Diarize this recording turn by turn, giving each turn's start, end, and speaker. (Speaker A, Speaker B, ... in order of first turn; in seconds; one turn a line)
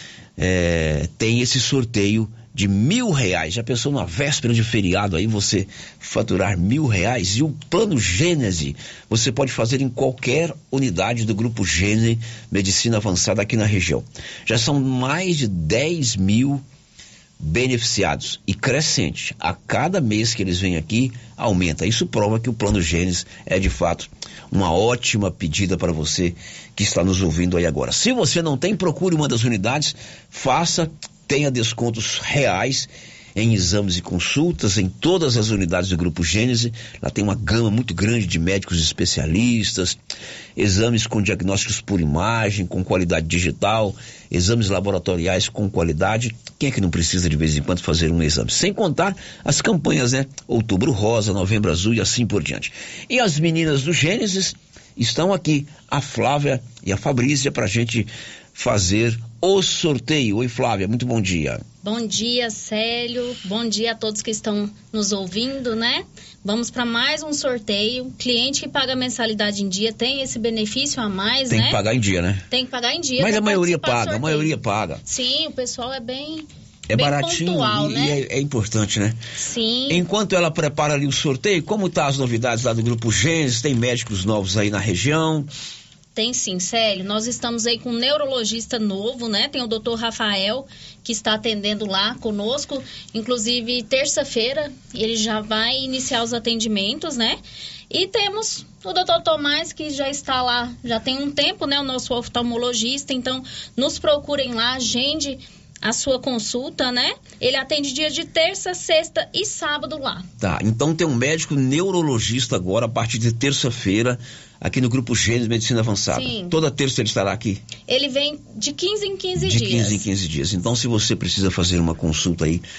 Speaker A: 0.4-16.6
Speaker A: 17.4-40.0
Speaker A: 40.6-61.6
Speaker B: 61.8-71.8
Speaker A: 71.5-72.5
Speaker B: 72.5-74.5
Speaker A: 73.2-75.0
Speaker B: 75.0-78.2
Speaker A: 76.9-79.2
Speaker B: 79.4-80.0
Speaker A: 79.9-85.5
Speaker B: 86.1-97.4
Speaker B: 97.9-110.3
Speaker A: 110.4-117.6
Speaker B: 116.1-116.5
Speaker B: 117.9-120.0
Speaker A: 119.4-122.6